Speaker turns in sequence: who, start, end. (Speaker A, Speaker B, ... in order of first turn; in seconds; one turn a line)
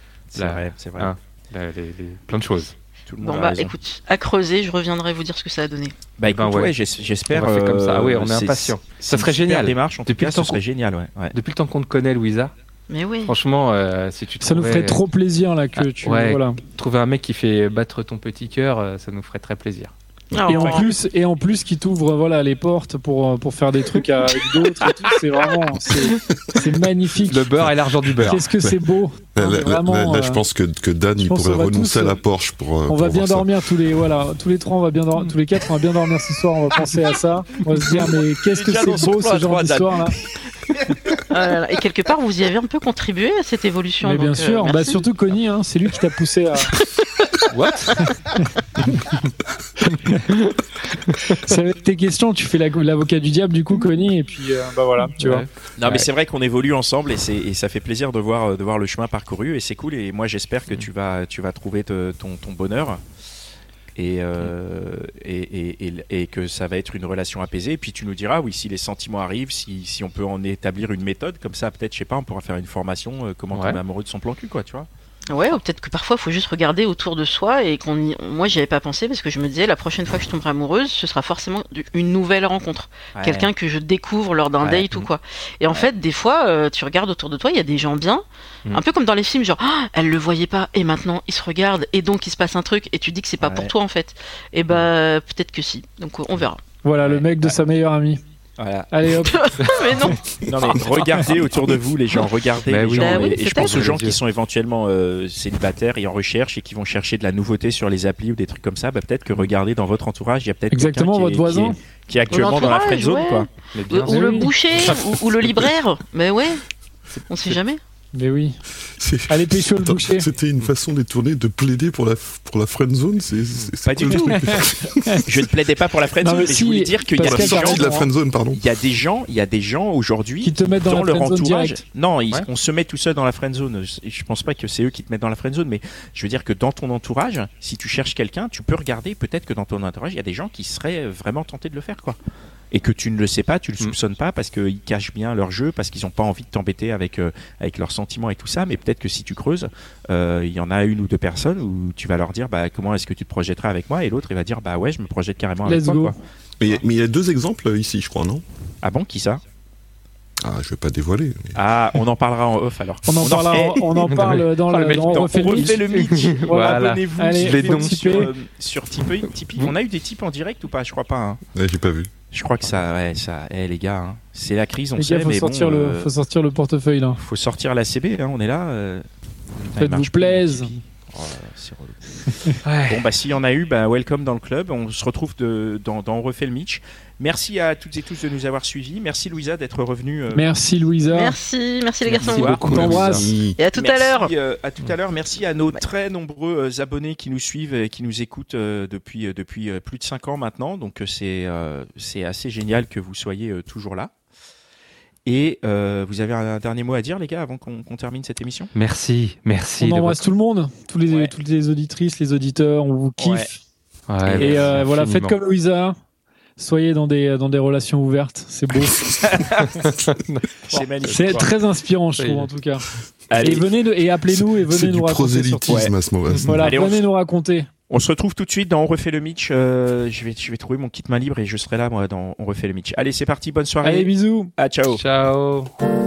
Speaker A: 0.3-1.1
Speaker B: 0.4-2.7
Speaker A: 3.1-3.7
Speaker C: 3.2-6.0
Speaker A: 6.2-11.3
Speaker B: 6.2-6.7
Speaker B: 7.3-10.6
Speaker B: 11.3-12.5
Speaker C: 12.9-13.3
Speaker B: 13.3-15.0
Speaker D: 14.4-16.6
Speaker B: 15.8-19.9
Speaker C: 20.3-20.9
Speaker A: 20.4-20.9
Speaker D: 20.5-27.5
Speaker B: 24.8-25.1
Speaker B: 27.3-28.5
Speaker E: 28.1-28.8
Speaker D: 28.2-30.4
Speaker E: 29.4-33.5
Speaker D: 31.2-32.2
Speaker D: 32.9-40.1
Speaker A: 37.7-40.3
Speaker C: 41.3-45.0
Speaker D: 44.0-46.8
Speaker B: 47.5-48.1
Speaker D: 47.9-48.5
Speaker B: 49.8-51.4
Speaker D: 51.4-55.5
Speaker B: 55.2-56.1
Speaker A: 55.8-63.0
Speaker A: 64.0-74.9
Speaker B: 73.5-73.8
Speaker C: 75.3-96.6
Speaker A: 83.1-83.5
Speaker A: 84.6-85.0
Speaker A: 93.4-93.7
Speaker D: 96.8-98.2
Speaker A: 97.0-97.5
Speaker A: 98.6-99.3
Speaker D: 98.9-99.4
Speaker C: 99.2-100.2
Speaker B: 99.6-100.1
Speaker A: 100.4-113.5
Speaker B: 102.7-104.2
Speaker C: 103.0-104.0
Speaker D: 110.7-111.8
Speaker C: 112.3-116.6
Speaker B: 113.7-115.1
Speaker D: 114.1-114.5
Speaker C: 117.3-117.8
Speaker D: 118.1-118.6
Speaker E: 119.0-125.2
Speaker D: 119.3-120.2
Speaker A: 123.8-124.6
Speaker D: 124.2-125.2
Speaker A: 125.2-127.8
Speaker D: 126.2-128.1
Speaker E: 127.2-128.6
Speaker A: 128.5-142.2
Speaker D: 130.4-131.8
Speaker A: 142.7-156.2
Speaker D: 155.6-156.2
Speaker E: 156.6-158.4
Speaker A: 158.8-159.4
Speaker E: 160.4-161.6
Speaker A: 161.5-171.4
Speaker D: 163.1-165.8
Speaker B: 164.1-168.3
Speaker D: 166.6-168.3
Speaker E: 171.5-172.1
Speaker A: 172.3-176.1
Speaker D: 175.0-177.2
Speaker A: 177.1-179.1
Speaker A: 179.6-190.5
Speaker D: 179.8-180.7
Speaker B: 182.6-183.0
Speaker D: 190.3-191.4
Speaker C: 191.1-192.9
Speaker B: 192.1-193.2
Speaker A: 192.3-193.2
Speaker D: 192.6-193.3
Speaker E: 193.0-193.6
Speaker C: 193.6-194.3
Speaker A: 193.7-204.1
Speaker A: 205.2-208.7
Speaker B: 208.7-210.2
Speaker D: 209.8-213.6
Speaker A: 211.1-211.3
Speaker A: 213.2-213.5
Speaker B: 214.1-215.4
Speaker A: 214.2-214.8
Speaker D: 214.4-216.0
Speaker D: 216.6-219.2
Speaker A: 219.2-219.8
Speaker B: 219.5-221.5
Speaker A: 220.7-221.5
Speaker D: 221.1-222.9
Speaker B: 222.2-222.5
Speaker A: 223.3-223.7
Speaker D: 223.4-225.8
Speaker E: 224.3-226.7
Speaker A: 225.7-225.9
Speaker D: 226.4-227.7
Speaker A: 226.6-227.0
Speaker A: 227.9-235.0
Speaker D: 233.8-234.5
Speaker B: 234.9-235.7